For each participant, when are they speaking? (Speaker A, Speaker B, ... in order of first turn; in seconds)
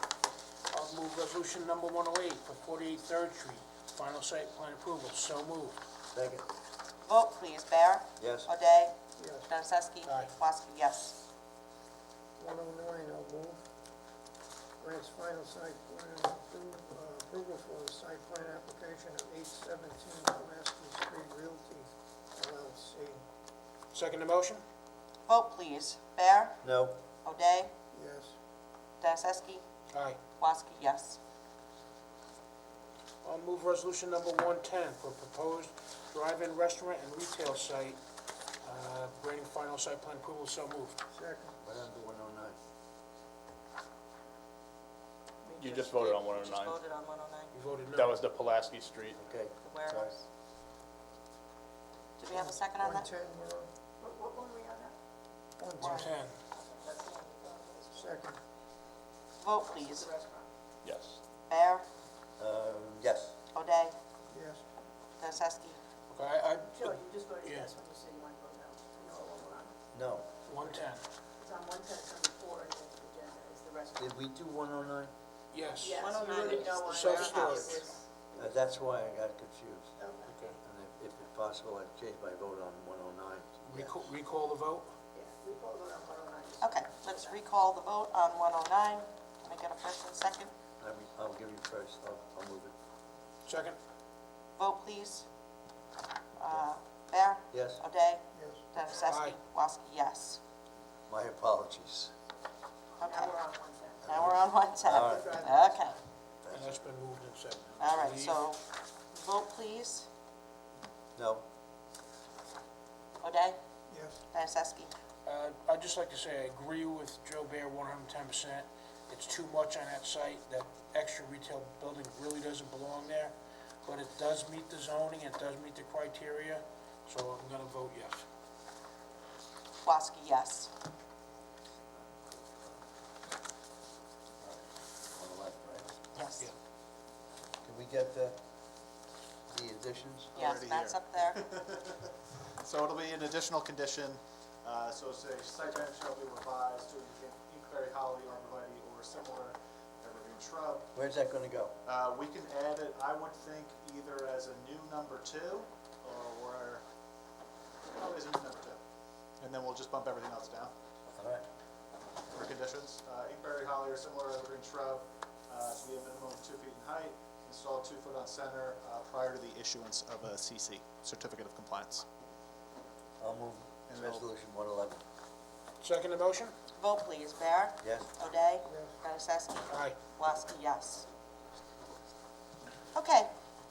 Speaker A: 0.7-5.8, 10.1-10.3, 23.9-24.6, 29.9-30.2, 33.2-38.0, 38.6-41.0, 47.5-48.2, 55.8-56.4, 66.1-67.7, 70.5-71.0, 75.5-77.8, 80.3-80.6, 83.7-84.9, 93.5-93.8, 99.0-99.4, 106.5-108.4, 115.2-128.2, 175.8-176.5, 179.7-180.0
Speaker B: 6.1-6.4, 8.2-8.5, 26.6-27.0, 41.6-42.6, 49.1-50.1, 62.4-63.3, 69.9-70.2, 74.0-75.1, 78.3-79.9, 80.6-84.0, 90.8-92.7, 97.5-97.8, 101.1-102.1, 104.0-105.5, 106.4-106.8, 111.2-111.4, 135.1-135.9, 137.6-138.4, 139.5-140.3, 150.9-151.7, 161.1-161.4, 173.2-175.0
Speaker C: 7.0-8.9, 9.5-11.2, 25.3-26.6, 27.2-27.7, 29.0-29.6, 30.4-31.2, 45.4-47.5, 49.6-50.2, 52.2-53.1, 59.4-60.1, 61.5-61.9, 63.5-64.0, 65.2-65.8, 75.9-77.9, 86.6-90.5, 94.6-95.3, 96.4-100.4, 103.0-103.4, 104.0-106.0, 107.8-110.1, 113.2-113.6, 114.3-114.9, 129.8-130.7, 136.1-136.5, 140.3-141.4, 176.8-181.1, 182.9-183.3
Speaker D: 9.2-9.4, 12.4-13.6, 14.8-23.2, 27.9-28.3, 41.1-41.5, 52.3-53.7, 55.6-56.2, 57.9-58.4, 64.3-64.6, 98.3-98.6, 113.9-114.2, 178.7-178.9
Speaker E: 45.6-46.8, 48.0-49.2, 60.8-61.2
Speaker F: 54.0-55.0, 56.6-58.1, 59.7-60.5, 66.7-69.7, 71.4-74.2, 75.8-78.5, 80.0-80.3, 85.1-87.4, 103.0-104.1, 105.1-105.8
Speaker G: 140.3-150.9, 151.8-156.8, 157.9-158.8, 159.4-160.7, 162.3-172.0, 173.9-174.2